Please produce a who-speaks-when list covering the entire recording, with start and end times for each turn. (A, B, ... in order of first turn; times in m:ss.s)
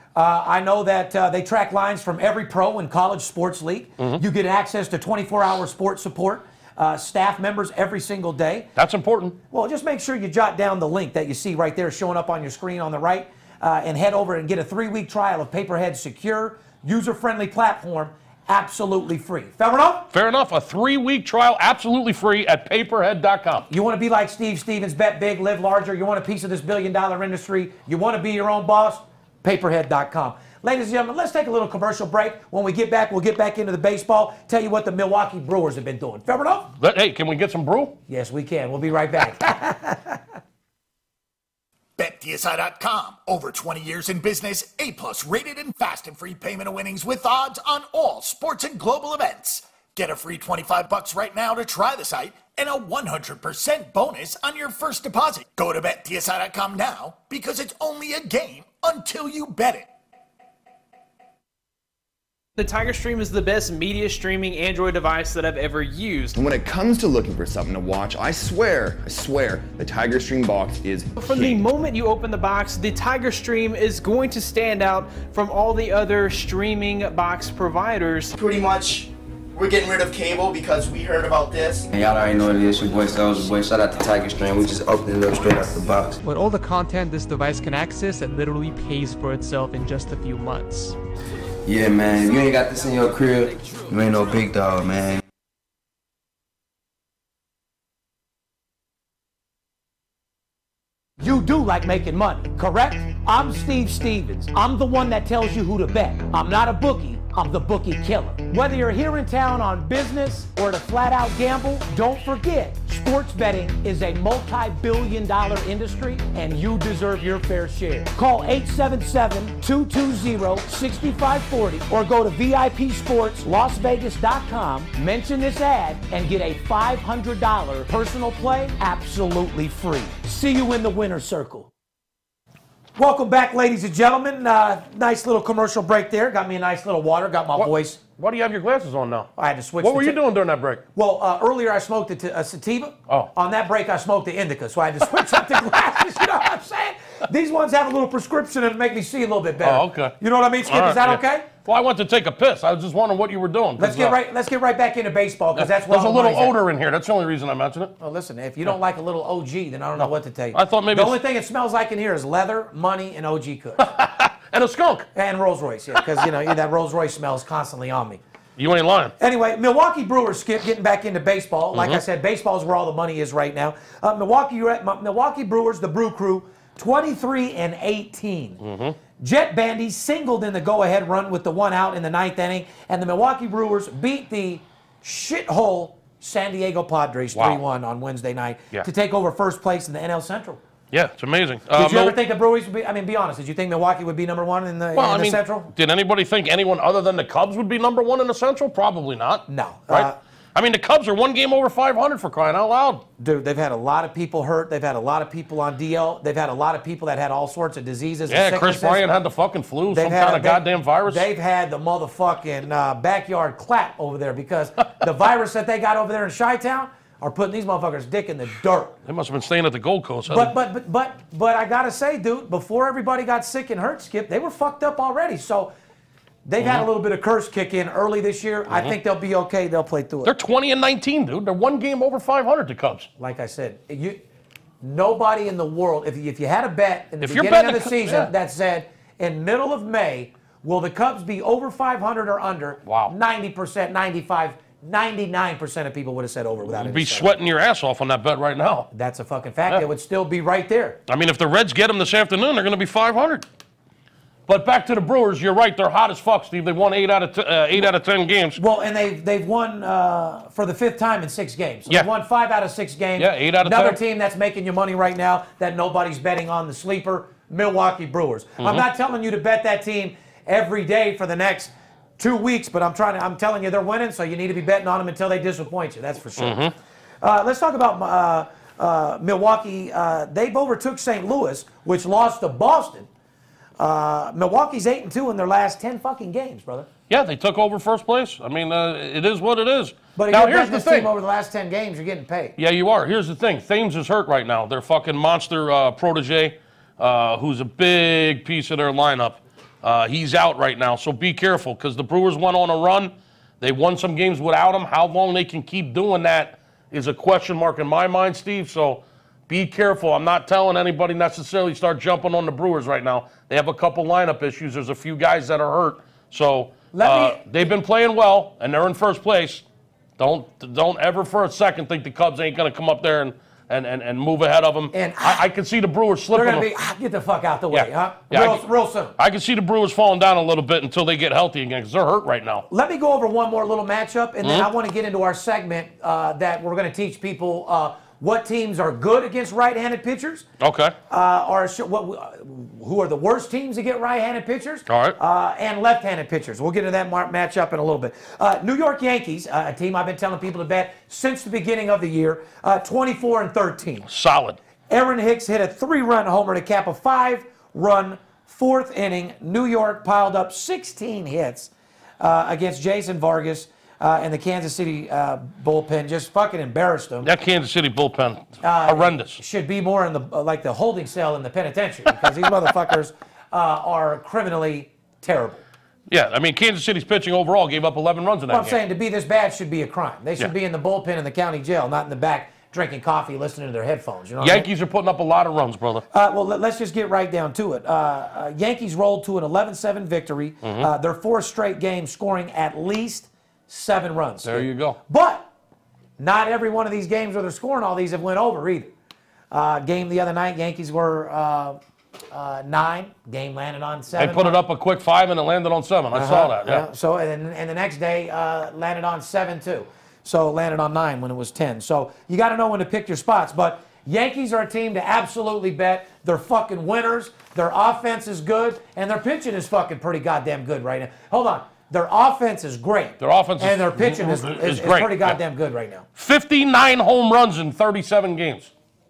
0:00.1-0:08.7 A
0:08.8-0:09.4 B
0:09.5-0:20.1 A
0:20.1-0:23.7 B
0:23.7-0:36.7 A
0:36.8-0:37.9 B
0:38.1-0:40.2 A
0:42.0-0:59.9 C
1:02.6-1:06.4 D
1:06.3-1:11.6 E
1:11.2-1:18.3 D
1:18.4-1:21.9 F
1:21.9-1:26.2 G
1:26.2-1:31.0 H
1:31.6-1:35.2 G
1:41.2-2:11.7 A
2:13.0-2:18.0 A
2:17.6-2:20.8 B
2:19.4-2:20.2 A
2:20.9-2:31.5 A
2:29.6-2:30.1 B
2:30.7-2:34.2 B
2:33.8-2:36.6 A
2:35.6-2:37.9 B
2:38.0-2:43.9 A
2:40.0-2:41.2 B
2:43.8-2:45.1 B
2:45.1-2:48.2 A
2:48.6-2:49.1 B
2:49.2-2:58.6 A
2:51.7-2:52.0 B
2:58.6-2:59.0 B
2:59.2-3:10.6 A
3:07.3-3:07.6 B
3:10.9-3:12.2 B
3:11.7-3:15.7 A
3:14.9-3:23.0 B
3:19.5-3:20.2 A
3:23.2-3:29.0 A
3:28.3-3:31.3 B
3:29.9-3:39.0 A
3:39.0-3:40.5 B
3:40.3-3:45.7 A
3:46.4-3:50.3 A
3:46.6-3:46.9 B
3:48.7-3:48.9 B
3:50.2-3:53.1 B
3:53.2-3:54.2 A
3:54.8-4:07.3 A
3:57.2-3:58.3 B
4:02.8-4:03.1 B
4:06.6-4:08.9 B
4:08.9-4:11.0 A
4:11.1-4:13.4 B
4:14.5-4:18.6 B
4:18.6-4:36.6 A
4:23.2-4:24.0 B
4:28.6-4:28.8 B
4:36.4-4:36.7 B
4:37.2-4:43.1 A
4:43.8-4:46.9 A
4:47.1-4:51.1 B
4:50.2-4:52.5 A
4:52.6-5:19.6 B
5:16.9-5:17.4 A
5:20.2-5:26.7 B
5:24.9-5:25.4 A
5:26.3-5:29.1 A
5:27.7-5:28.6 B
5:29.2-5:32.7 B
5:32.7-5:40.4 A
5:34.4-5:34.7 B
5:40.6-5:40.9 B
5:41.1-5:54.1 A
5:44.9-5:45.2 B
5:54.1-5:54.6 B
5:54.9-6:07.3 A
6:07.2-6:09.4 B
6:08.6-6:15.6 A
6:16.1-6:18.8 B
6:18.5-6:24.7 A
6:24.4-6:26.0 B
6:26.1-6:35.5 A
6:30.6-6:30.9 B
6:34.4-6:35.0 B
6:36.2-6:38.9 A
6:39.5-6:41.8 A
6:42.3-6:44.6 A
6:44.2-6:46.8 B
6:46.1-7:06.0 A
7:03.2-7:05.4 B
7:06.2-7:08.7 B